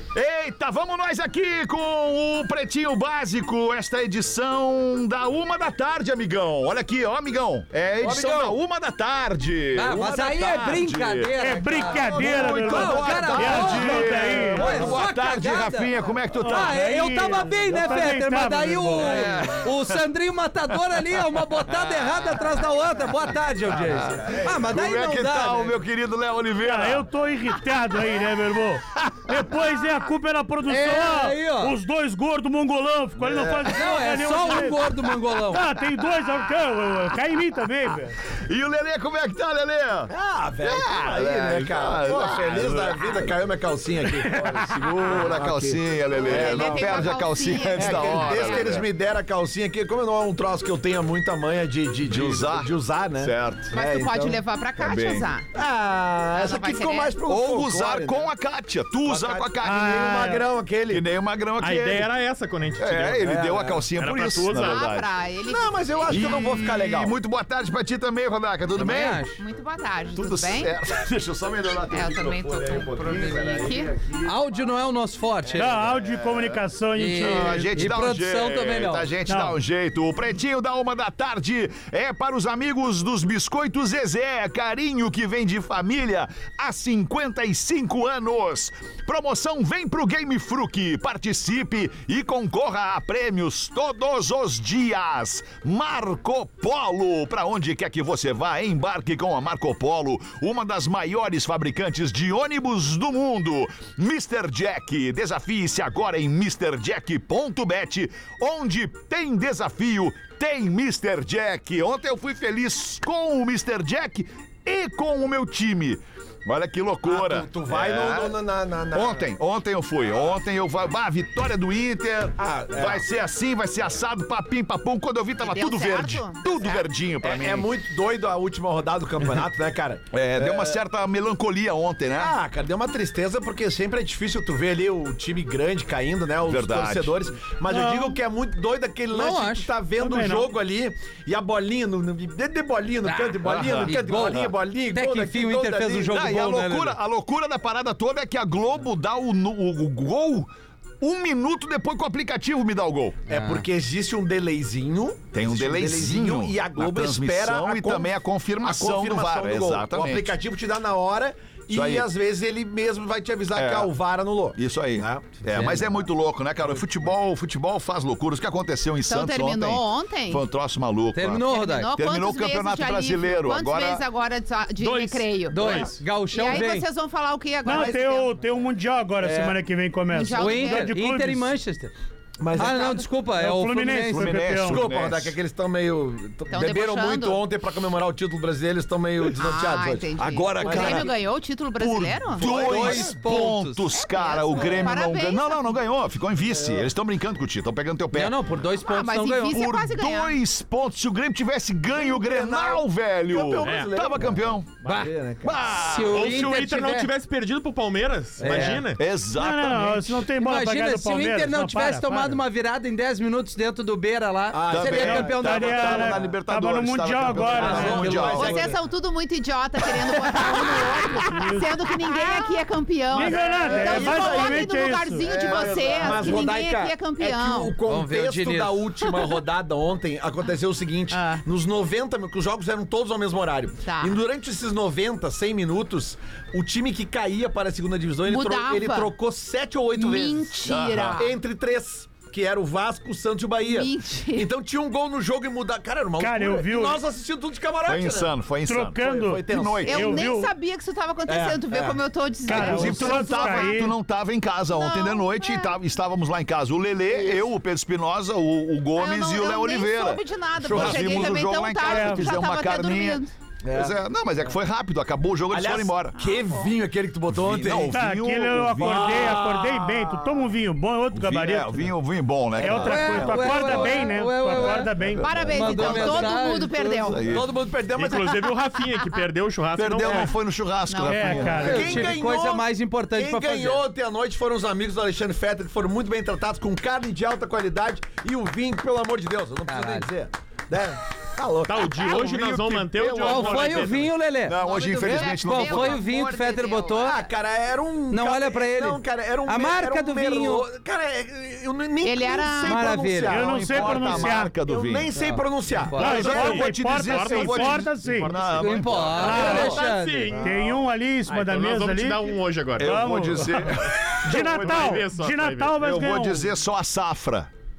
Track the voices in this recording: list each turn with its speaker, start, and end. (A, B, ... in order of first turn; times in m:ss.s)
0:00.1-0:11.3 A
0:08.0-0:08.5 B
0:09.7-0:25.8 C
0:10.4-0:10.8 B
0:11.4-0:14.8 D
0:11.8-0:15.0 B
0:12.0-0:16.9 A
0:16.4-0:19.6 D
0:19.0-0:19.8 A
0:21.7-0:22.1 A
0:24.1-0:27.1 A
0:26.6-0:38.2 D
0:29.1-0:29.4 A
0:30.6-0:31.8 C
0:33.6-0:35.7 C
0:38.4-0:43.3 A
0:40.1-0:54.4 B
0:44.3-0:48.9 A
0:46.2-0:48.8 E
0:52.0-0:53.7 A
0:53.7-0:55.5 E
0:54.8-0:55.2 A
0:55.5-0:58.3 B
0:56.3-0:57.1 E
0:57.2-1:00.3 A
0:59.0-1:01.0 B
0:59.6-1:00.4 D
1:00.9-1:02.1 A
1:01.6-1:03.2 F
1:02.8-1:05.1 A
1:03.2-1:03.8 B
1:04.0-1:04.8 F
1:04.5-1:06.7 E
1:05.4-1:07.2 B
1:06.1-1:09.2 A
1:08.8-1:09.4 C
1:09.4-1:10.7 E
1:10.2-1:14.4 A
1:11.9-1:13.9 E
1:13.1-1:13.4 C
1:14.2-1:15.8 C
1:15.6-1:17.9 D
1:15.6-1:16.6 A
1:16.9-1:19.1 C
1:17.2-1:58.4 A
1:19.2-1:19.6 D
1:57.0-1:59.3 B
1:58.9-2:07.7 A
2:02.4-2:03.0 B
2:05.4-2:06.8 E
2:07.2-2:10.8 B
2:10.1-2:12.4 A
2:12.2-2:26.0 B
2:16.4-2:17.3 A
2:17.7-2:18.2 D
2:19.1-2:19.7 C
2:19.9-2:20.5 D
2:23.0-2:27.0 C
2:23.4-2:24.5 A
2:26.0-2:30.5 A
2:31.0-2:33.2 A
2:33.3-2:45.7 B
2:33.3-2:33.6 C
2:35.3-2:40.4 A
2:41.7-2:42.1 A
2:43.5-2:43.9 A
2:44.5-2:54.0 A
2:45.5-2:45.8 C
2:49.1-2:50.4 E
2:51.1-2:51.9 C
2:51.4-2:58.3 E
2:54.8-2:55.9 F
2:55.5-2:56.9 C
2:57.6-3:01.5 D
2:57.6-2:58.1 B
2:59.2-2:59.6 B
3:00.1-3:00.9 E
3:00.3-3:01.9 C
3:02.4-3:03.1 B
3:02.5-3:04.5 C
3:03.4-3:04.8 D
3:04.1-3:05.4 A
3:04.6-3:11.1 B
3:06.5-3:07.4 E
3:09.4-3:12.4 E
3:10.2-3:11.1 A
3:11.7-3:18.4 A
3:12.3-3:13.2 B
3:12.4-3:13.9 C
3:13.9-3:15.7 E
3:14.5-3:14.9 B
3:16.4-3:16.9 B
3:18.1-3:19.6 C
3:18.8-3:20.4 E
3:19.5-3:24.8 A
3:21.9-3:25.6 B
3:23.6-3:23.9 F
3:24.8-3:25.1 C
3:25.4-3:26.4 A
3:25.7-3:27.1 C
3:26.1-3:29.0 F
3:28.4-3:28.8 B
3:28.4-3:28.9 C
3:28.9-3:30.3 A
3:29.3-3:32.4 D
3:30.4-3:36.1 C
3:34.5-3:36.3 B
3:34.7-3:38.7 A
3:34.9-3:38.3 D
3:37.4-3:38.8 B
3:38.2-3:47.8 E
3:41.2-3:41.7 D
3:43.1-3:45.3 D
3:43.1-4:00.6 B
3:46.0-3:46.4 A
3:47.8-3:48.8 C
3:49.0-3:49.4 E
3:51.1-3:51.4 E
3:53.8-3:54.2 E
3:58.2-3:59.1 E
3:59.9-4:01.3 E
4:00.6-4:01.2 A
4:01.2-4:08.3 B
4:03.6-4:04.5 E
4:06.2-4:07.0 D
4:07.8-4:10.2 A
4:08.7-4:10.5 D
4:09.0-4:10.2 B
4:09.8-4:13.8 E
4:11.3-4:12.0 B
4:12.4-4:13.9 D
4:12.5-4:26.2 A
4:14.7-4:15.8 E
4:19.0-4:23.3 E
4:20.6-4:21.4 B
4:21.8-4:22.3 D
4:23.6-4:24.0 B
4:25.5-4:27.9 B
4:26.2-4:26.7 E
4:27.3-4:29.4 A
4:27.9-4:31.9 D
4:28.8-4:30.3 B
4:31.1-4:36.4 A
4:32.6-4:35.5 D
4:32.7-4:34.9 C
4:35.2-4:37.2 E
4:35.5-4:37.2 C
4:37.0-4:37.5 A
4:37.2-4:38.4 B
4:38.0-4:40.3 F
4:39.8-4:42.0 A
4:40.0-4:40.3 B
4:40.9-4:41.6 E
4:41.0-4:41.9 D
4:41.5-4:43.8 C
4:41.6-4:52.1 B
4:49.7-4:50.1 C
4:51.7-4:54.1 F
4:52.0-4:53.9 A
4:53.2-4:57.2 C
4:54.4-4:56.0 A
4:54.6-4:57.1 E
4:56.9-5:06.6 B
4:58.1-5:00.7 C
5:02.0-5:02.8 E
5:02.6-5:03.6 C
5:03.3-5:04.6 D
5:03.3-5:05.1 A
5:05.1-5:06.6 C
5:06.0-5:09.8 A
5:06.0-5:08.3 D
5:06.5-5:08.4 F
5:08.4-5:10.4 C
5:09.2-5:13.0 F
5:09.2-5:09.7 D
5:09.4-5:09.8 B
5:10.4-5:16.5 D
5:12.8-5:15.0 A
5:13.9-5:15.8 F
5:15.8-5:17.5 A